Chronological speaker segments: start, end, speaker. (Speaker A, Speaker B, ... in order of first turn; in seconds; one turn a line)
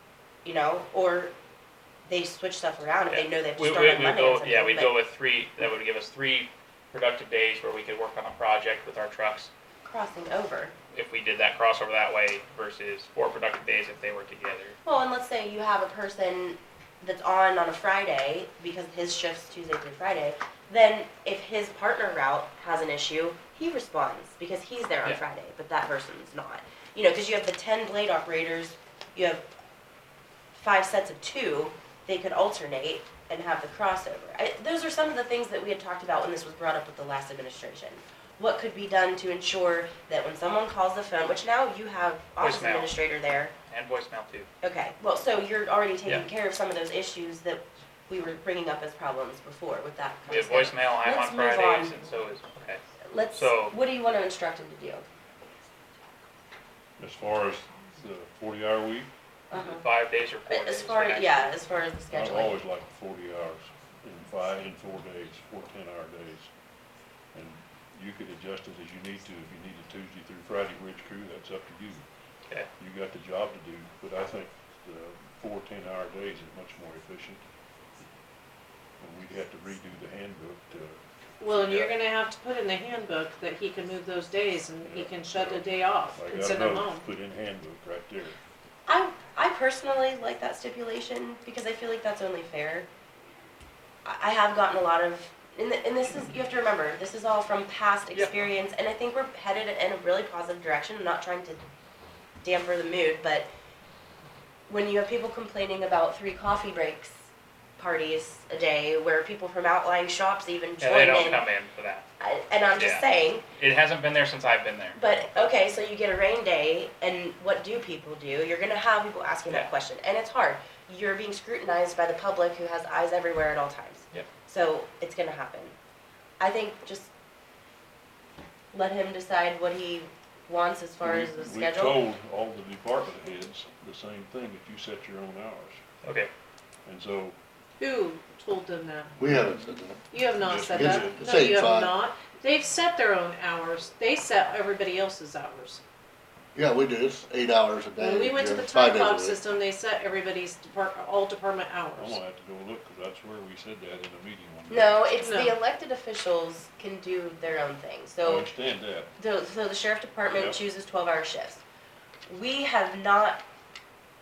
Speaker A: 0.5-1.3
Speaker A: 2.1-4.9
Speaker B: 3.1-9.5
Speaker A: 9.8-10.7
Speaker B: 10.9-14.8
Speaker A: 14.8-29.5
Speaker A: 30.6-43.5
Speaker B: 42.4-43.0
Speaker B: 43.7-44.5
Speaker A: 44.6-52.0
Speaker B: 50.3-52.8
Speaker A: 53.1-55.0
Speaker B: 53.3-53.8
Speaker C: 57.0-59.1
Speaker A: 59.5-59.8
Speaker B: 59.5-61.5
Speaker A: 60.5-62.6
Speaker C: 62.1-66.5
Speaker C: 67.3-72.1
Speaker C: 72.8-77.5
Speaker C: 79.0-82.0
Speaker D: 81.4-87.1
Speaker C: 84.8-88.4
Speaker A: 88.9-92.9
Speaker A: 94.0-101.6
Speaker A: 102.4-103.5
Speaker A: 104.7-107.3
Speaker A: 107.8-111.4
Speaker B: 110.8-112.1
Speaker A: 112.2-113.4
Speaker B: 112.7-115.0
Speaker A: 115.0-125.7
Speaker A: 126.4-127.1
Speaker A: 128.7-132.1
Speaker C: 131.0-135.8
Speaker B: 136.0-136.3
Speaker C: 136.9-137.4
Speaker D: 137.8-139.3
Speaker E: 139.2-140.0
Speaker D: 140.1-145.8
Speaker C: 140.4-141.3
Speaker E: 140.7-141.9
Speaker E: 146.6-149.4
Speaker D: 148.0-152.2
Speaker C: 152.0-155.2
Speaker A: 154.7-158.5
Speaker D: 155.2-155.6
Speaker C: 158.2-159.1
Speaker A: 159.2-161.6
Speaker C: 160.3-160.6
Speaker A: 162.3-163.4